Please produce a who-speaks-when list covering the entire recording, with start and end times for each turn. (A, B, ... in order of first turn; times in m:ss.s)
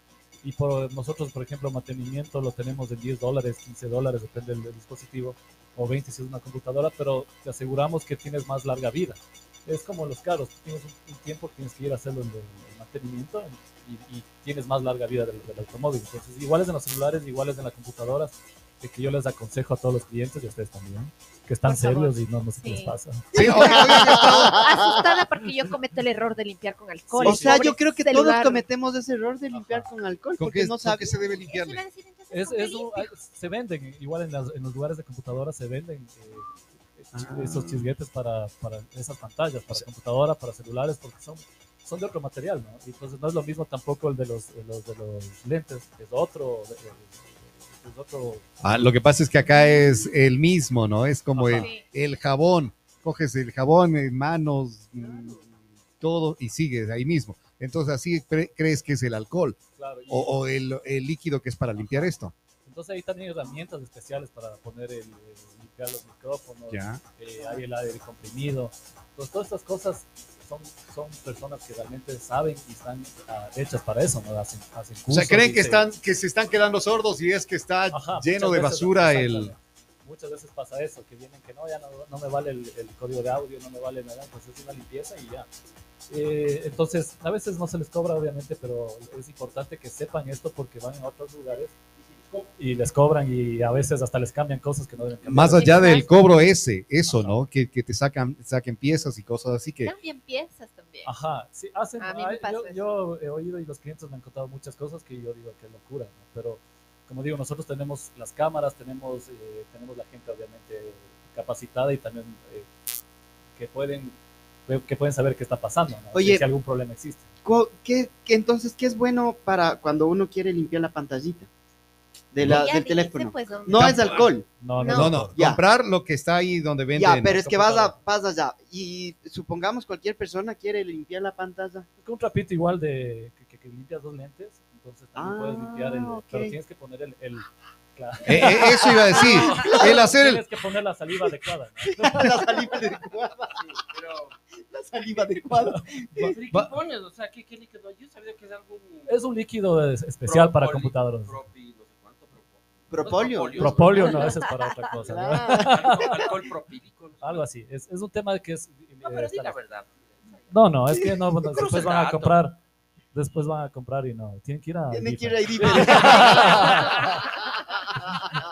0:00.4-0:24.0 A
0:21.6-0:22.9 B
0:23.3-0:24.7 C
0:23.3-0:25.0 D
0:24.5-0:28.6 B
0:27.1-0:27.7 A
0:27.2-0:31.2 D
0:29.5-0:29.9 A
0:30.4-0:31.8 C
0:31.3-0:33.1 B
0:32.3-0:48.5 A
0:37.1-0:37.8 C
0:48.6-0:55.5 C
0:51.3-0:51.7 A
0:51.5-0:51.8 B
0:56.0-1:02.3 C
0:59.8-1:00.4 A
1:02.6-1:15.8 A
1:06.7-1:07.0 C
1:15.1-1:19.5 C
1:17.9-1:25.5 A
1:26.1-1:31.8 A
1:32.6-1:36.1 A
1:35.2-1:39.9 C
1:35.6-1:36.1 B
1:37.1-1:37.4 A
1:39.8-1:41.1 B
1:41.0-1:52.7 A
1:42.0-1:42.8 B
1:53.6-1:54.2 A
1:54.7-1:57.2 A
1:56.1-1:56.4 D
1:57.4-2:01.5 D
2:02.3-2:04.5 D
2:02.4-2:02.6 C
2:02.4-2:04.2 B
2:03.7-2:04.3 C
2:04.6-2:05.4 A
2:04.8-2:05.3 B
2:04.9-2:07.4 C
2:05.3-2:05.6 D
2:07.0-2:11.9 D
2:07.3-2:08.0 A
2:12.0-2:22.6 A
2:15.2-2:16.6 D
2:18.2-2:20.4 C
2:19.1-2:19.9 D
2:19.3-2:19.8 E
2:21.9-2:23.6 D
2:23.6-2:24.3 E
2:24.6-2:26.3 D
2:26.2-2:26.7 C
2:26.2-2:29.2 E
2:29.1-2:31.4 A
2:30.2-2:34.4 E
2:32.9-2:34.3 D
2:33.6-2:36.2 A
2:34.0-2:34.9 B
2:34.9-2:36.2 D
2:35.4-2:37.4 E
2:37.2-2:39.6 A
2:39.0-2:40.3 E
2:40.5-2:42.6 A
2:41.4-2:42.4 E
2:43.1-2:47.3 A
2:44.9-2:48.4 D